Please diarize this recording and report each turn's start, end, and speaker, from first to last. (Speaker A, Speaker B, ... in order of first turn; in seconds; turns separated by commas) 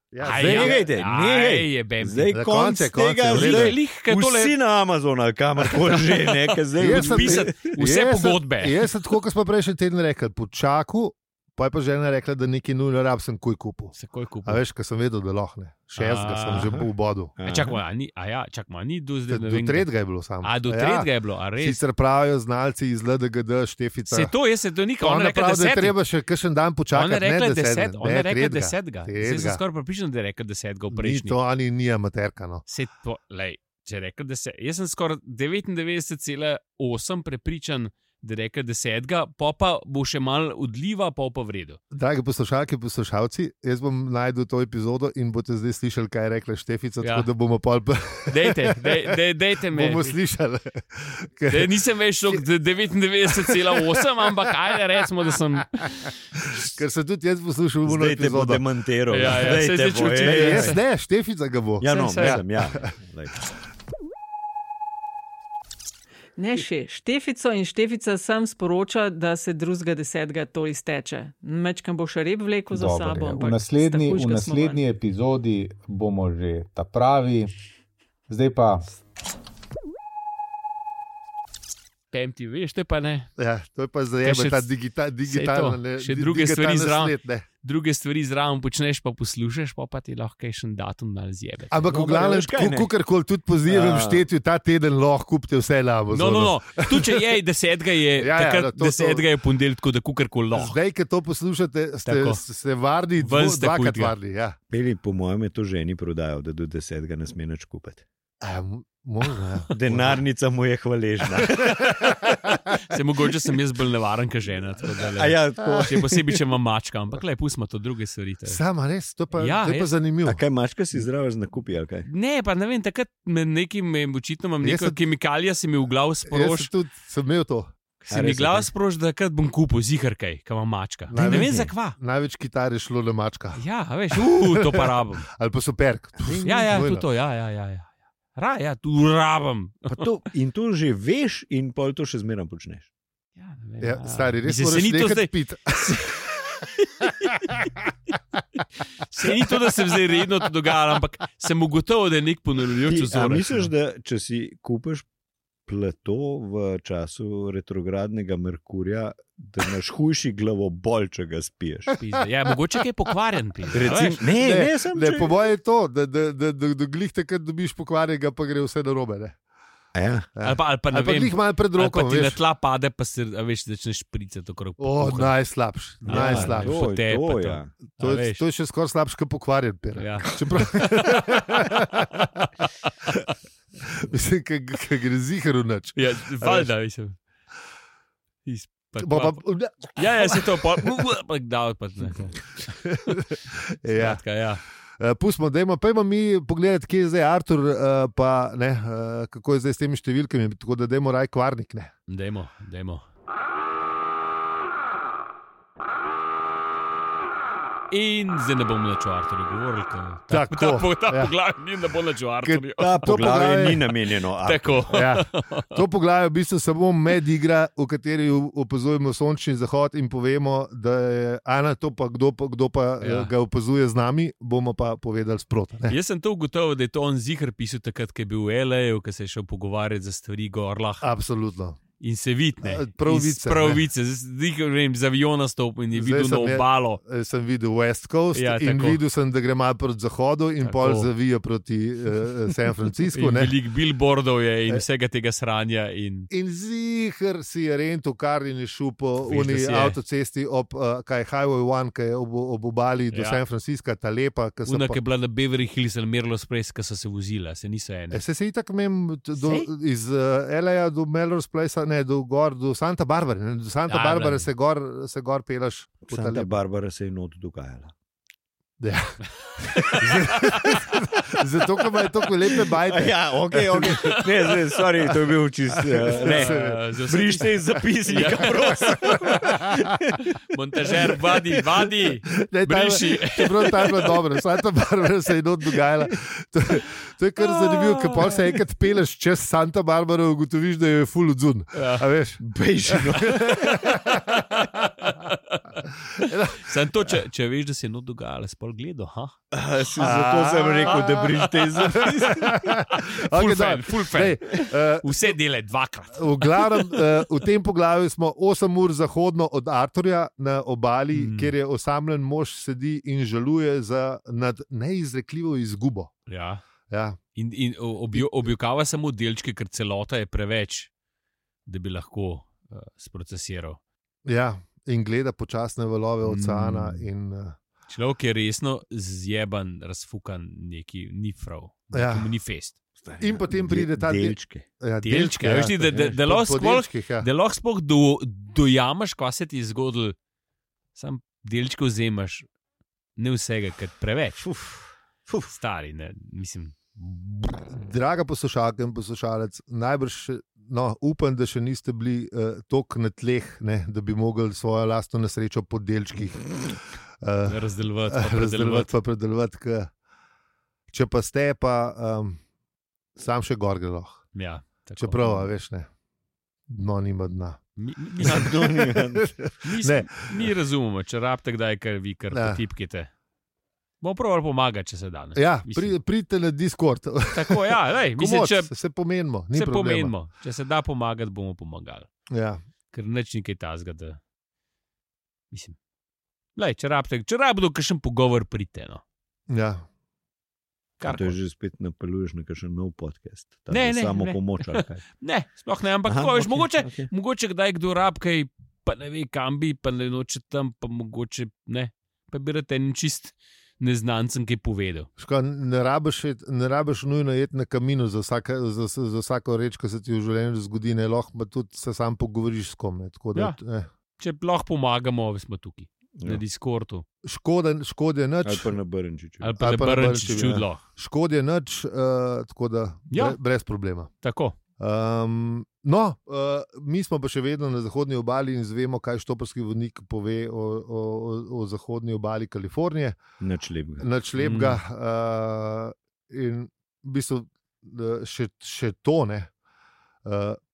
Speaker A: 0.1-0.8, Speaker B: 0.2-2.3, Speaker C: 0.3-7.7, Speaker A: 2.3-3.8, Speaker B: 3.3-4.5, Speaker B: 5.8-8.9, Speaker A: 6.8-17.3, Speaker B: 13.9-14.6, Speaker B: 16.0-16.7, Speaker C: 16.6-17.8, Speaker B: 17.4-19.9, Speaker A: 19.3-24.3, Speaker B: 20.4-21.8, Speaker B: 24.1-25.9, Speaker A: 25.0-29.6, Speaker B: 26.9-31.4, Speaker A: 30.9-32.6, Speaker B: 32.7-41.8, Speaker A: 41.9-49.1, Speaker B: 47.0-47.3, Speaker B: 48.3-50.1, Speaker A: 49.7-51.7, Speaker B: 51.5-56.1, Speaker A: 53.4-54.0, Speaker A: 55.8-58.6, Speaker C: 57.9-60.8, Speaker B: 59.1-60.8, Speaker A: 60.2-62.9, Speaker C: 61.8-63.4, Speaker B: 61.8-62.4, Speaker D: 66.4-74.8, Speaker E: 72.7-77.5, Speaker E: 78.3-79.0, Speaker B: 82.1-83.3, Speaker A: 83.4-87.5, Speaker B: 84.2-84.7, Speaker B: 85.2-91.8, Speaker A: 91.7-97.2, Speaker C: 91.9-92.9, Speaker C: 93.7-94.2, Speaker B: 96.1-100.8, Speaker A: 98.2-99.2, Speaker A: 100.5-104.6, Speaker B: 102.0-102.4, Speaker B: 103.2-104.1, Speaker C: 104.7-108.0, Speaker A: 108.4-110.2, Speaker C: 109.7-112.0, Speaker B: 111.6-118.6, Speaker A: 111.7-112.0, Speaker C: 115.0-116.4, Speaker A: 118.5-120.4, Speaker B: 119.3-119.9, Speaker C: 120.2-122.1, Speaker B: 122.0-126.7, Speaker A: 124.6-125.0, Speaker A: 126.3-127.7, Speaker C: 128.1-128.7, Speaker B: 128.1-132.0, Speaker A: 131.1-133.6, Speaker C: 131.2-131.5, Speaker B: 133.5-135.3, Speaker A: 134.1-137.1, Speaker B: 136.4-140.0, Speaker C: 139.9-142.9, Speaker B: 143.3-147.6, Speaker A: 143.8-146.2, Speaker B: 149.0-153.7, Speaker C: 152.8-155.1, Speaker C: 155.7-161.9, Speaker B: 162.0-164.2, Speaker C: 163.7-165.3, Speaker A: 164.3-169.4, Speaker C: 169.9-170.3, Speaker A: 170.3-172.4, Speaker B: 170.4-175.3, Speaker A: 174.8-176.8, Speaker B: 176.0-178.4, Speaker C: 176.1-177.8, Speaker A: 178.0-182.5, Speaker B: 179.9-181.8, Speaker B: 182.8-183.2, Speaker A: 183.9-186.7, Speaker B: 185.9-187.2, Speaker B: 188.4-192.8, Speaker A: 189.0-190.9, Speaker A: 192.8-194.2, Speaker B: 193.9-194.6, Speaker A: 195.0-201.9, Speaker B: 202.1-203.0, Speaker B: 207.9-213.1, Speaker A: 210.3-211.3, Speaker A: 212.4-213.8, Speaker C: 212.8-214.9, Speaker B: 214.4-215.7, Speaker A: 214.9-225.9, Speaker B: 223.0-223.3, Speaker B: 225.9-231.1, Speaker A: 231.0-231.8, Speaker B: 232.0-237.0, Speaker A: 232.6-233.8, Speaker A: 235.9-243.5, Speaker B: 238.3-239.0, Speaker B: 240.6-241.1, Speaker B: 243.1-246.3, Speaker A: 246.3-255.0, Speaker B: 249.2-250.0, Speaker B: 253.1-253.4, Speaker B: 254.6-258.2, Speaker A: 258.1-266.6, Speaker B: 259.4-259.7, Speaker B: 263.9-264.5, Speaker C: 266.1-267.9, Speaker A: 268.8-274.0, Speaker B: 269.8-270.8, Speaker C: 272.9-276.6, Speaker B: 273.9-274.2, Speaker A: 276.0-276.8, Speaker B: 276.1-279.5, Speaker C: 277.1-280.3, Speaker A: 278.2-279.9, Speaker B: 280.5-284.1, Speaker A: 282.3-294.9, Speaker B: 287.4-288.4, Speaker B: 291.7-292.1, Speaker C: 292.4-293.9, Speaker B: 294.8-299.4, Speaker A: 295.9-297.1, Speaker C: 299.5-302.6, Speaker A: 300.0-305.4, Speaker B: 301.0-301.3, Speaker B: 301.9-307.2, Speaker A: 306.1-316.1, Speaker B: 311.1-311.5, Speaker B: 316.3-316.6, Speaker A: 316.9-317.2, Speaker B: 317.3-320.9, Speaker A: 318.1-318.5, Speaker B: 321.6-323.8, Speaker A: 324.2-327.6, Speaker B: 326.2-327.1, Speaker B: 327.9-332.8, Speaker A: 331.9-332.3, Speaker C: 333.0-334.6, Speaker A: 333.2-337.3, Speaker B: 335.0-340.1, Speaker B: 340.9-342.4, Speaker B: 343.2-344.5, Speaker C: 344.4-345.5, Speaker B: 345.5-347.7, Speaker A: 347.7-359.9, Speaker B: 357.4-358.9, Speaker A: 360.9-362.4, Speaker A: 363.1-364.3, Speaker B: 364.3-365.5, Speaker A: 365.0-365.9, Speaker A: 366.7-367.6, Speaker B: 367.8-368.5, Speaker A: 368.2-370.1, Speaker C: 368.2-369.3, Speaker B: 369.6-373.1, Speaker A: 372.3-372.6, Speaker B: 374.0-375.9, Speaker A: 375.3-380.1, Speaker B: 377.3-378.7, Speaker B: 379.5-382.1, Speaker A: 382.3-382.6, Speaker B: 382.9-384.2, Speaker B: 385.5-385.8, Speaker B: 386.6-389.0, Speaker A: 389.5-389.9, Speaker B: 391.0-391.4, Speaker C: 391.0-395.0, Speaker B: 393.7-405.1, Speaker C: 396.0-397.1, Speaker A: 405.2-413.9, Speaker B: 414.2-417.0, Speaker A: 417.2-418.8, Speaker C: 418.4-419.5, Speaker B: 419.4-420.8, Speaker A: 419.6-424.1, Speaker B: 423.1-423.4, Speaker B: 424.2-424.6, Speaker A: 424.8-433.2, Speaker C: 433.4-434.1, Speaker A: 434.0-439.5, Speaker B: 434.4-434.8, Speaker A: 440.2-440.6